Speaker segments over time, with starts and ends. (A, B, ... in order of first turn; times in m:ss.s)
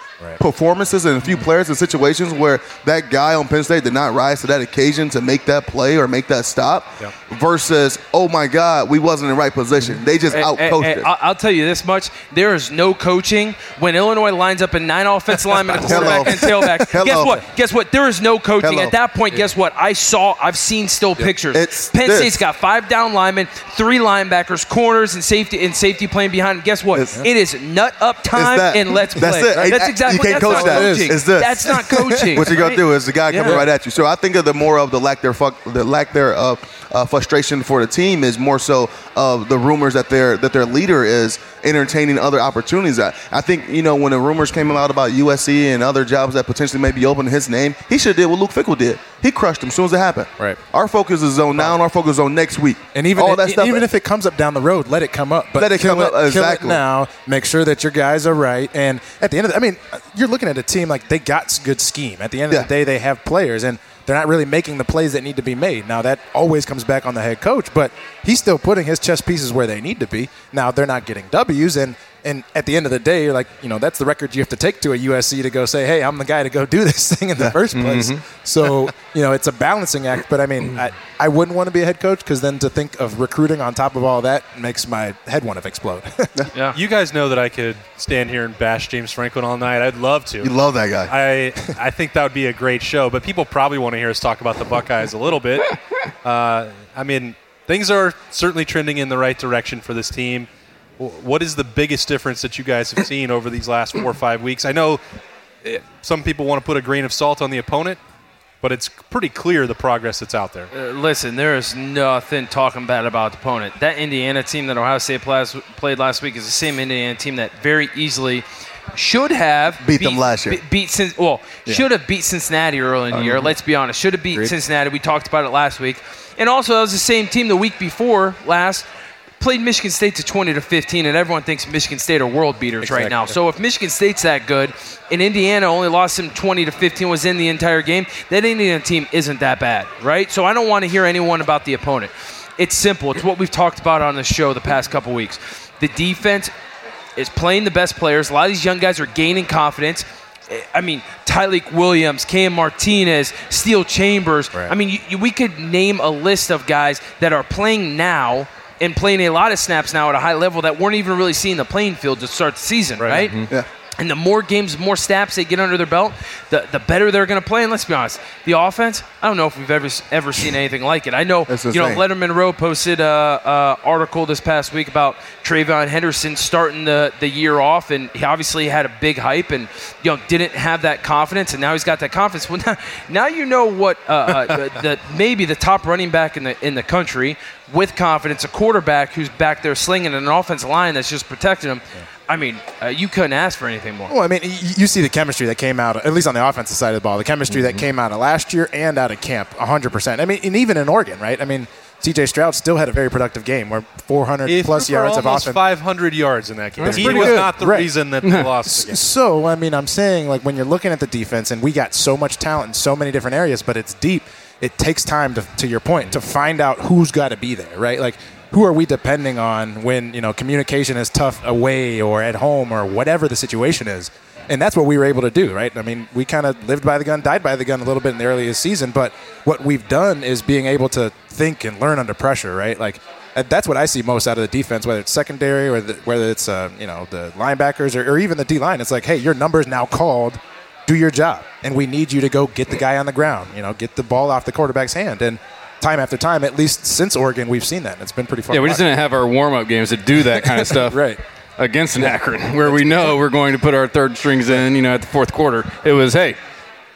0:00.4-0:11.1 A
0:10.3-0:33.6 B
0:15.7-0:17.4 A
0:18.6-0:18.9 A
0:21.5-0:22.4 A
0:28.3-0:53.9 A
0:29.5-0:31.2 C
0:31.8-0:32.4 C
0:33.4-0:33.7 C
0:52.9-1:26.3 C
0:55.6-0:56.8 A
1:17.7-1:18.2 D
1:26.7-1:30.5 E
1:30.4-1:31.2 A
1:31.1-1:35.7 E
1:36.2-1:45.0 E
1:45.6-1:48.0 E
1:48.6-1:50.7 E
1:50.7-2:08.9 B
1:59.8-2:00.6 A
2:09.4-2:26.5 B
2:12.8-2:13.4 C
2:27.2-2:43.3 B
2:43.1-2:43.5 D
2:44.0-3:14.1 B
2:51.5-2:52.0 A
3:14.1-3:25.6 C
3:24.5-3:29.0 E
3:26.8-3:27.6 D
3:26.8-3:27.9 C
3:28.2-3:28.5 D
3:28.7-4:08.8 C
4:08.5-4:16.4 D
4:10.4-4:11.2 C
4:12.6-4:13.2 C